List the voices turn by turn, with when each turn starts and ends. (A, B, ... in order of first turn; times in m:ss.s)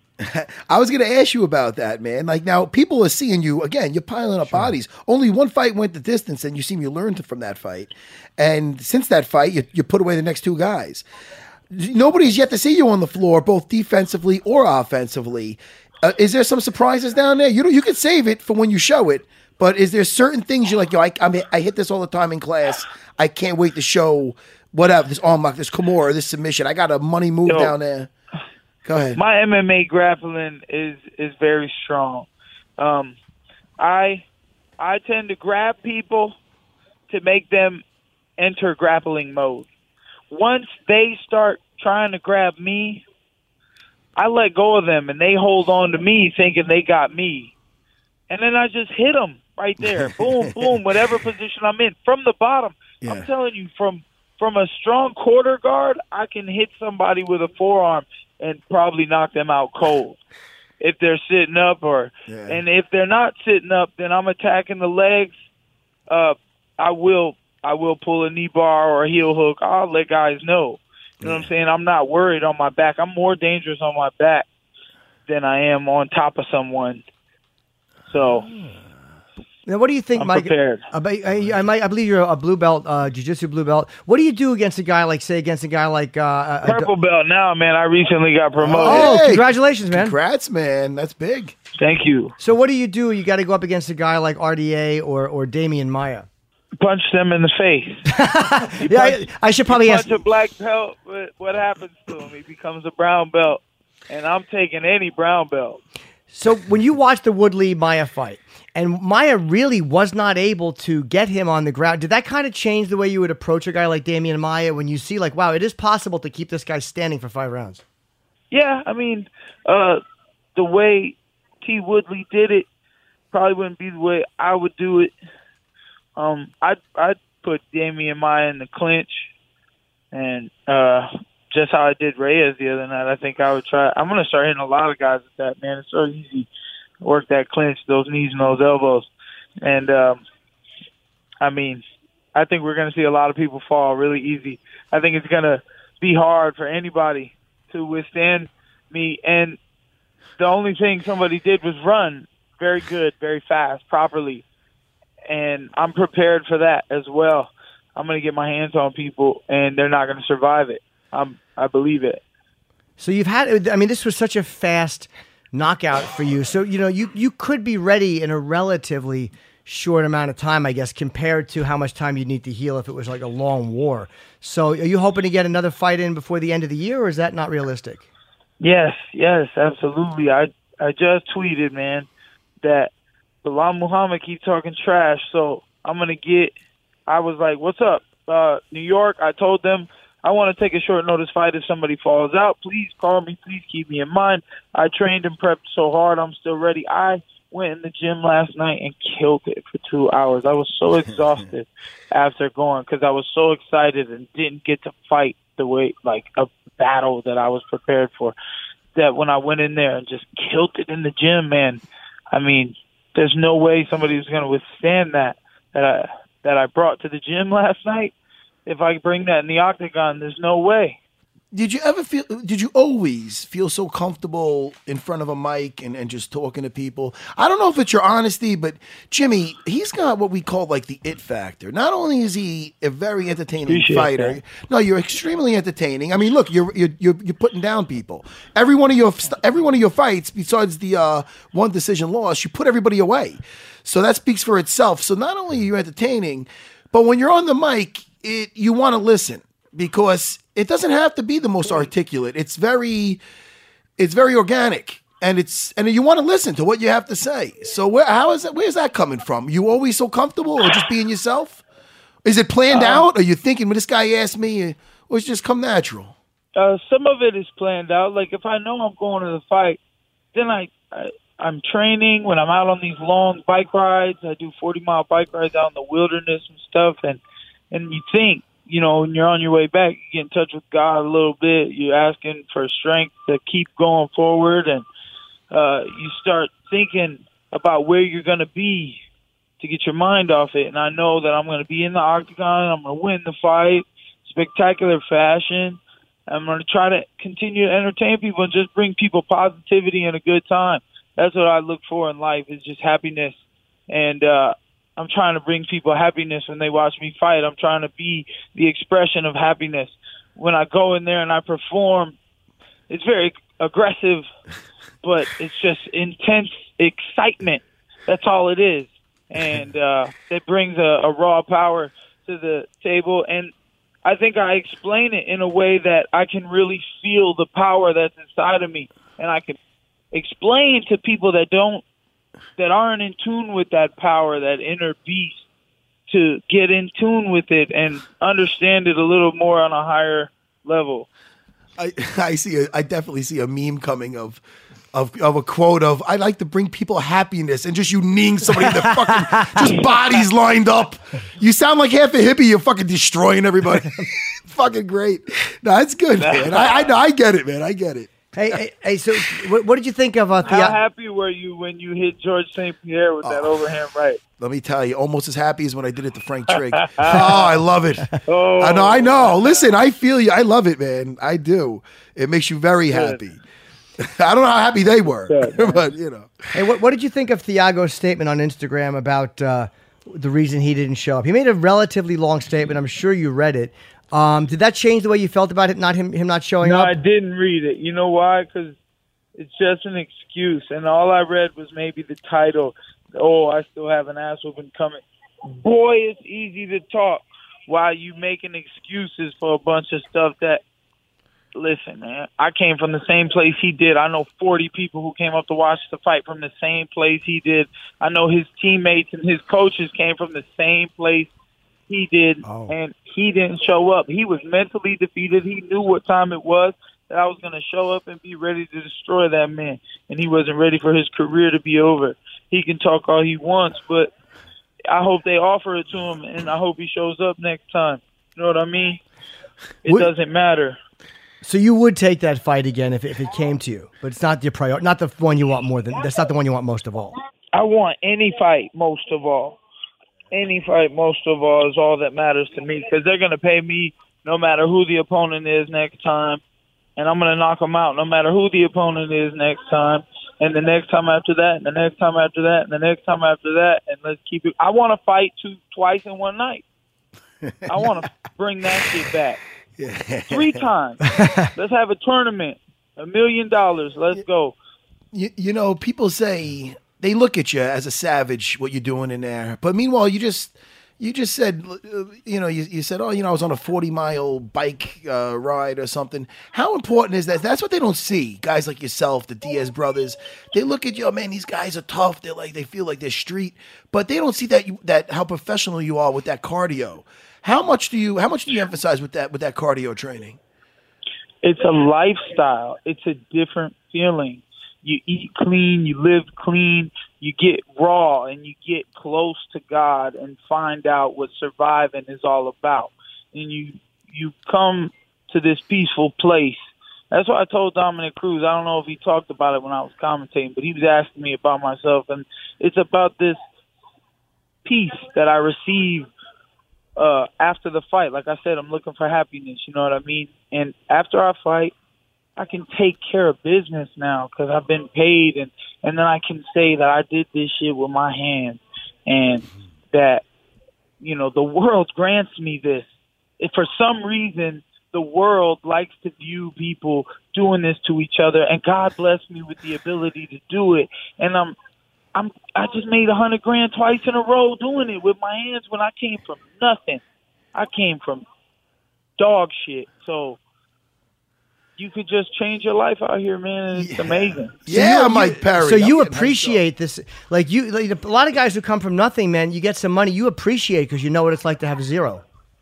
0:00.2-0:11.0 A
0:11.7-0:28.1 A
0:27.5-0:27.8 B
0:28.8-0:29.2 A
0:29.2-0:33.2 B
0:33.8-0:34.2 B
0:34.8-0:36.4 B
0:37.1-0:37.8 B
0:38.4-0:39.7 B
0:40.3-0:43.0 B
0:44.2-0:47.5 B
0:48.3-1:00.2 B
0:49.8-0:50.8 A
0:53.0-0:53.3 A
1:00.8-1:05.3 B
1:02.3-1:02.6 A
1:06.1-1:14.5 B
1:11.2-1:11.5 A
1:15.3-1:17.0 B
1:18.1-1:18.5 B
1:18.2-1:18.7 A
1:19.7-1:26.9 C
1:20.2-1:20.9 B
1:26.6-1:29.2 B
1:28.6-1:31.6 A
1:28.8-1:30.2 C
1:31.8-1:32.3 B
1:32.4-1:36.3 C
1:36.8-1:38.0 B
1:38.1-1:40.2 C
1:38.8-1:45.8 B
1:46.3-1:57.8 C
1:58.5-2:00.0 B
2:00.6-2:02.7 B
2:03.3-2:05.1 B
2:06.2-2:09.3 B
2:10.1-2:16.5 B
2:17.0-2:19.1 B
2:19.6-2:20.2 B
2:21.4-2:21.8 B
2:22.3-2:29.6 B
2:30.4-2:34.4 B
2:35.3-2:42.2 B
2:43.0-2:58.1 C
2:58.6-3:02.1 B
3:02.6-3:02.9 B
3:03.4-3:06.5 B
3:07.1-3:28.4 B
3:29.0-3:38.1 B
3:38.7-3:41.0 B
3:41.5-4:13.2 A
3:53.7-3:54.4 B
4:14.0-4:21.6 A
4:22.2-4:26.2 A
4:22.7-4:23.1 B
4:26.6-4:29.8 B
4:30.3-4:44.9 B
4:45.5-4:49.0 B
4:49.6-5:03.4 B
5:03.9-5:12.2 B
5:12.9-5:14.2 B
5:15.0-5:23.5 B
5:24.0-5:29.6 B
5:30.1-5:31.8 B
5:32.6-5:35.4 B
5:36.1-5:41.1 B
5:41.8-5:44.4 A
5:44.9-5:58.1 A
5:56.2-5:56.9 B
5:58.3-6:00.8 C
6:00.5-6:04.2 B
6:03.2-6:03.6 A
6:04.4-6:13.4 A
6:06.5-6:07.5 B
6:08.3-6:09.7 B
6:12.9-6:13.2 B
6:14.0-6:16.5 A
6:15.3-6:15.8 B
6:16.5-6:27.0 C
6:26.6-6:28.8 B
6:29.4-6:40.6 B
6:41.5-6:51.3 B
6:51.9-7:04.1 B
6:52.4-6:52.8 C
7:04.9-7:09.0 B
7:09.8-7:10.8 B
7:11.4-7:17.2 C
7:17.5-7:19.6 B
7:20.3-7:26.4 B
7:27.0-7:36.6 B
7:37.4-7:38.0 A
7:37.7-7:39.4 B
7:39.8-7:40.6 A
7:40.3-7:41.0 B
7:41.1-7:41.5 C
7:41.6-7:44.6 B
7:45.1-8:10.4 A
8:11.4-8:33.4 B
8:34.6-8:36.1 B
8:37.0-8:41.7 B
8:42.4-8:50.2 B
8:51.0-8:52.9 B
8:53.4-9:01.6 B
9:02.2-9:07.0 B
9:07.5-9:08.2 B
9:09.2-9:10.4 B
9:11.8-9:14.6 B
9:13.7-9:16.6 A
9:14.7-9:22.2 C